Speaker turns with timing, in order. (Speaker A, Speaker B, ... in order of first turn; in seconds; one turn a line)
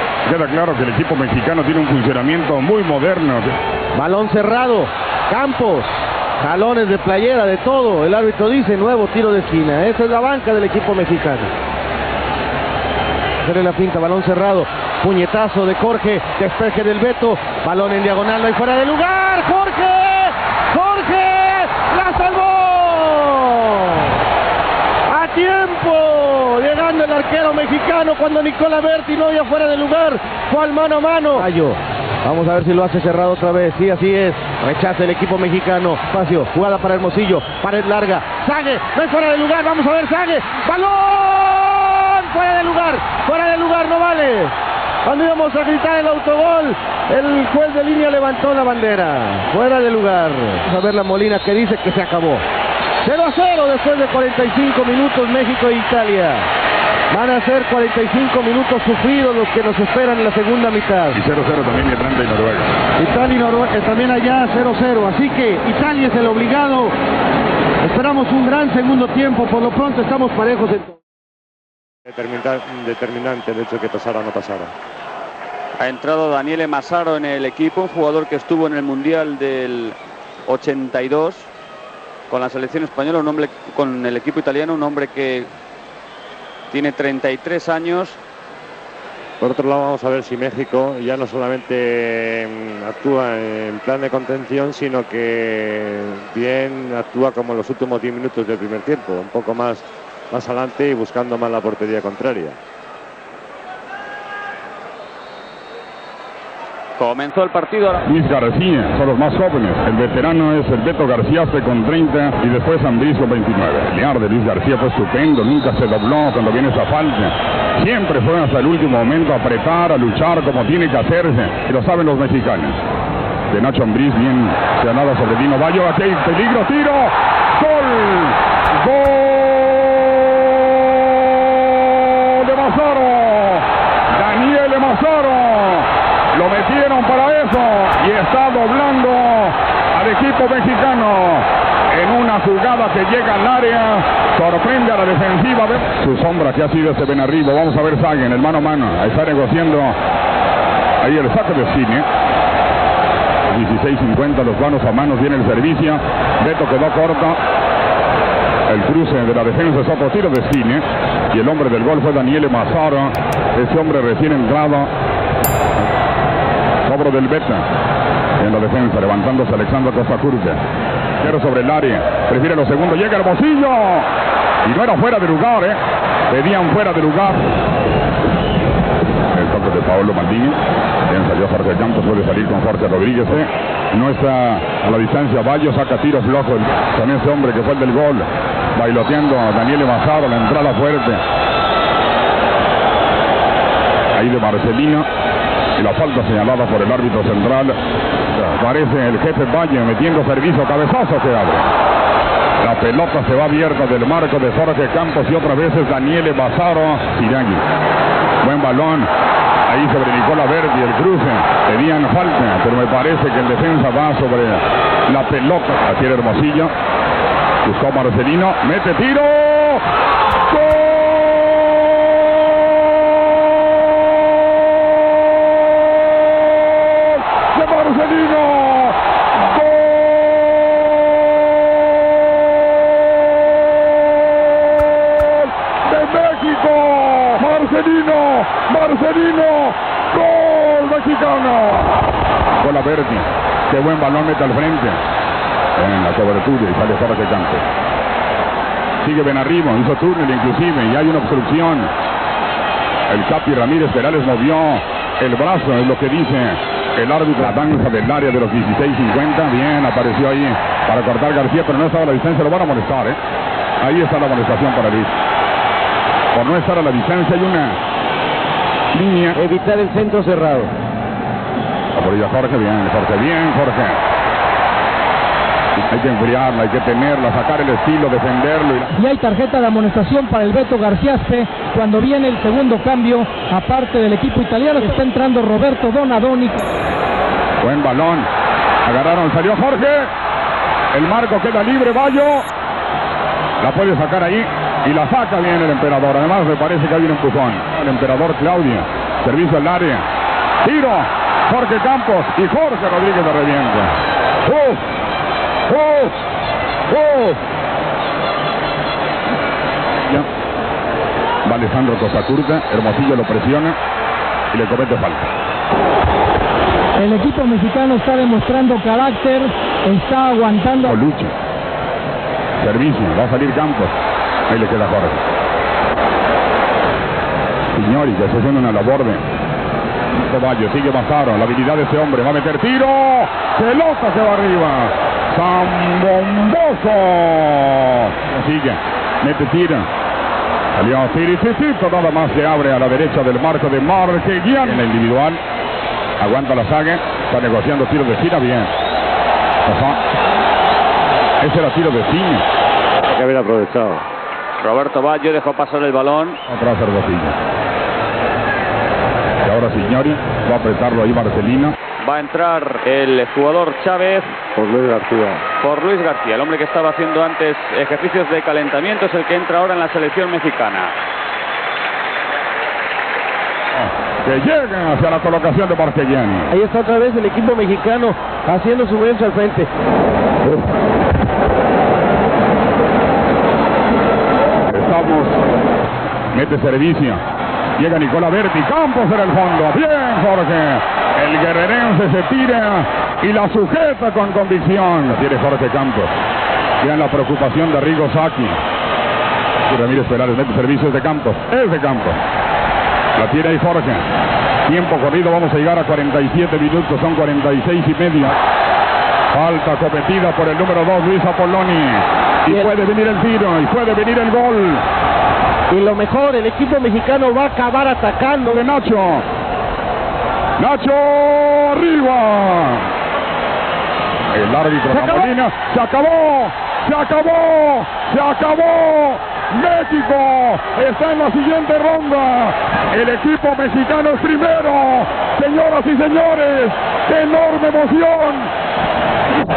Speaker A: 0.2-3.5
Speaker B: 3.9-11.5
Speaker B: 13.4-24.1
Speaker B: 25.1-44.5
Speaker B: 45.0-52.4
Speaker B: 53.0-56.5
Speaker B: 57.1-61.2
Speaker A: 61.1-62.7
Speaker B: 63.0-66.9
Speaker B: 67.8-71.0
Speaker C: 72.1-74.7
Speaker D: 75.8-79.9
Speaker D: 80.5-81.5
Speaker D: 82.3-85.5
Speaker D: 86.7-88.2
Speaker C: 89.4-102.6
Speaker D: 107.0-108.0
Speaker A: 108.0-122.8
Speaker A: 123.5-150.0
Speaker A: 151.0-152.1
Speaker A: 153.5-157.4
Speaker A: 158.7-164.9
Speaker A: 166.8-167.7
Speaker A: 168.4-170.6
Speaker A: 171.2-174.1
Speaker A: 174.6-175.8
Speaker A: 176.3-177.4
Speaker A: 179.3-191.2
Speaker A: 194.1-195.1
Speaker A: 195.8-197.8
Speaker A: 198.3-201.7
Speaker A: 202.6-207.6
Speaker A: 208.4-209.1
Speaker A: 209.7-216.7
Speaker A: 217.6-219.8
Speaker A: 220.5-221.5
Speaker A: 227.3-230.7
Speaker A: 235.2-241.9
Speaker A: 242.6-245.0
Speaker A: 245.8-247.6
Speaker A: 249.0-251.9
Speaker A: 253.1-263.2
Speaker A: 263.8-265.1
Speaker A: 266.3-267.8
Speaker A: 268.9-269.4
Speaker B: 269.4-270.7
Speaker A: 271.9-274.0
Speaker A: 275.8-278.9
Speaker E: 279.0-286.5
Speaker A: 287.6-288.3
Speaker A: 288.8-290.1
Speaker A: 290.9-292.5
Speaker A: 293.6-300.1
Speaker A: 300.6-303.9
Speaker A: 304.4-304.8
Speaker A: 305.7-306.1
Speaker A: 306.9-307.4
Speaker A: 311.4-313.8
Speaker A: 314.5-315.3
Speaker E: 317.0-320.9
Speaker A: 320.8-321.3
Speaker A: 322.6-323.9
Speaker A: 324.5-325.2
Speaker A: 327.7-329.2
Speaker A: 330.3-339.9
Speaker A: 340.7-345.4
Speaker A: 346.2-348.7
Speaker A: 349.6-350.0
Speaker A: 351.4-352.4
Speaker C: 353.1-354.0
Speaker D: 354.6-356.4
Speaker A: 356.5-357.4
Speaker A: 359.4-361.8
Speaker D: 362.0-364.4
Speaker B: 364.6-365.1
Speaker C: 364.7-365.2
Speaker D: 365.6-370.9
Speaker A: 373.7-376.5
Speaker B: 376.5-379.7
Speaker A: 384.7-385.4
Speaker A: 386.3-387.2
Speaker A: 387.8-396.1
Speaker A: 396.8-398.6
Speaker A: 399.7-402.2
Speaker A: 403.1-404.0
Speaker A: 404.6-408.4
Speaker A: 409.3-414.8
Speaker B: 415.7-418.6
Speaker A: 418.5-419.2
Speaker A: 420.6-422.9
Speaker A: 424.3-438.5
Speaker B: 424.9-425.3